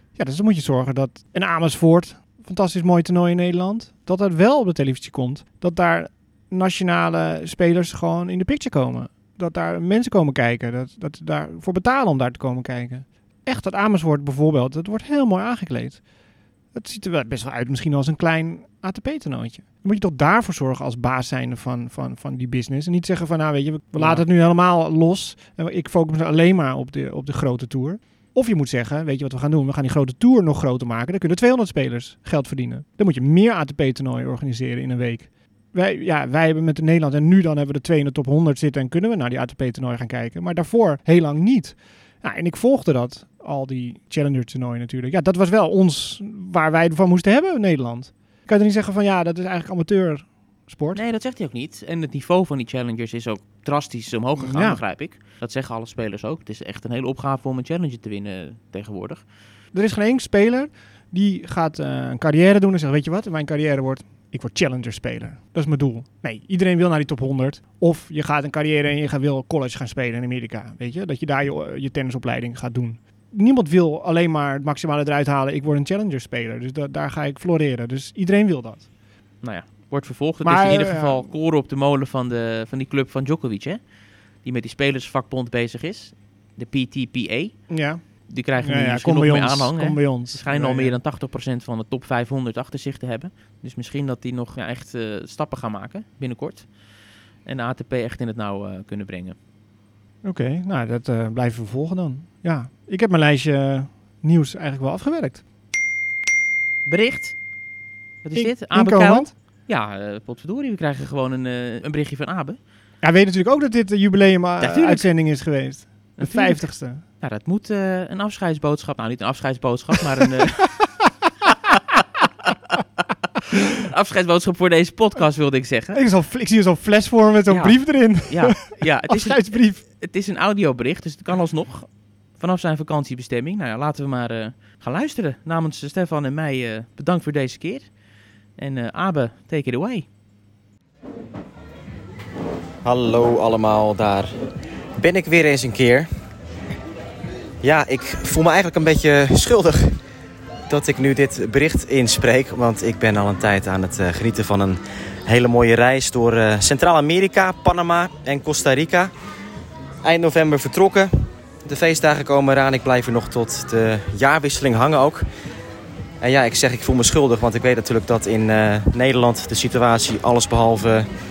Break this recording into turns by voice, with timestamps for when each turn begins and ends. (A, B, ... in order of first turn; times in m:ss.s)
0:00.1-0:16.1 A
0:16.7-0:51.0 A
0:23.9-0:24.3 B
0:50.9-0:59.2 B
0:54.4-0:54.8 A
0:59.7-1:18.9 A
1:19.4-1:23.9 B
1:20.4-1:21.3 A
1:24.4-1:36.7 B
1:27.7-1:30.9 A
1:37.4-1:39.4 B
1:40.2-1:45.4 A
1:46.9-1:47.4 B
1:48.2-1:52.6 B
1:48.3-1:49.3 A
1:53.0-1:57.0 A
1:54.6-1:55.1 B
1:56.2-2:00.8 B
2:01.5-2:02.8 B
2:03.7-2:06.0 B
2:05.9-2:09.8 A
2:07.5-2:18.0 B
2:18.6-2:20.1 B
2:22.8-2:24.3 C
2:25.0-2:26.1 C
2:27.6-2:30.0 C
2:30.7-2:39.1 C
2:40.0-2:45.2 C
2:46.2-2:51.1 C